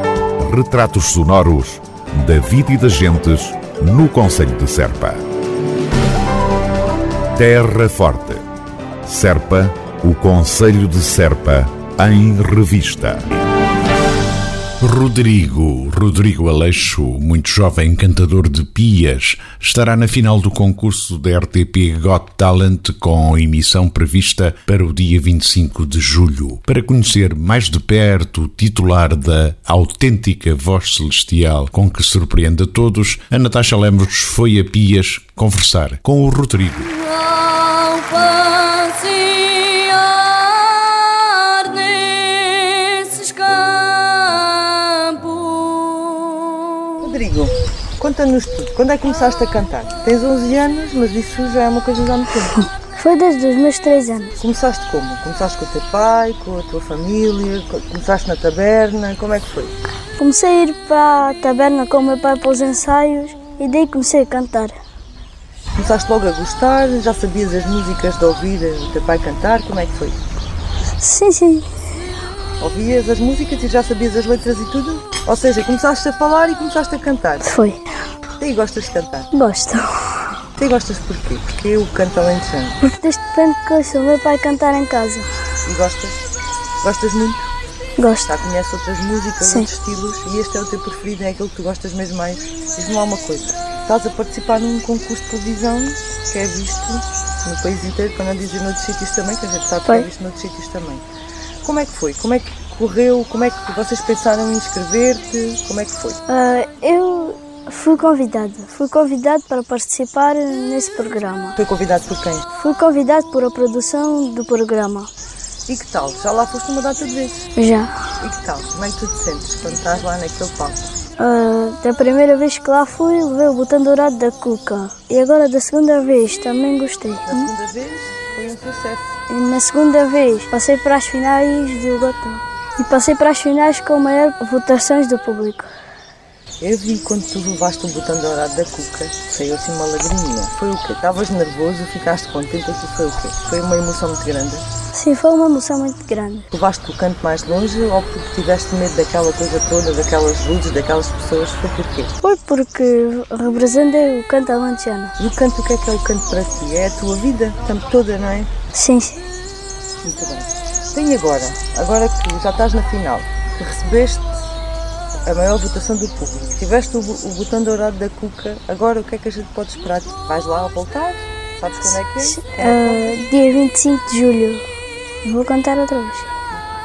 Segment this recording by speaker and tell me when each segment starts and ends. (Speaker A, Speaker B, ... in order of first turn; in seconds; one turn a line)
Speaker A: 0.4-5.2
Speaker A: 7.3-8.4
Speaker A: 9.0-13.3
Speaker B: 14.8-36.9
Speaker C: 36.9-47.0
Speaker D: 47.0-52.5
Speaker C: 52.9-54.4
Speaker D: 54.4-59.7
Speaker C: 60.2-64.8
Speaker D: 65.8-70.2
Speaker C: 71.0-71.7
Speaker D: 72.6-77.5
Speaker C: 77.4-77.8
Speaker D: 78.4-79.3
Speaker C: 79.3-79.9
Speaker D: 80.6-82.8
Speaker C: 82.8-85.3
Speaker D: 85.6-86.2
Speaker D: 86.8-87.5
Speaker C: 88.0-88.3
Speaker D: 88.2-101.0
Speaker C: 89.4-89.7
Speaker D: 101.6-106.2
Speaker C: 106.3-111.6
Speaker D: 111.6-112.5
Speaker C: 112.5-115.1
Speaker D: 115.7-117.4
Speaker C: 117.5-117.9
Speaker D: 118.2-120.9
Speaker C: 121.2-127.5
Speaker D: 127.3-129.2
Speaker C: 129.3-135.7
Speaker D: 136.6-144.7
Speaker C: 144.9-146.5
Speaker D: 146.5-152.1
Speaker C: 152.2-155.1
Speaker D: 155.2-158.5
Speaker C: 158.7-159.2
Speaker D: 160.0-164.4
Speaker D: 165.2-173.2
Speaker C: 172.2-174.6
Speaker C: 175.2-176.3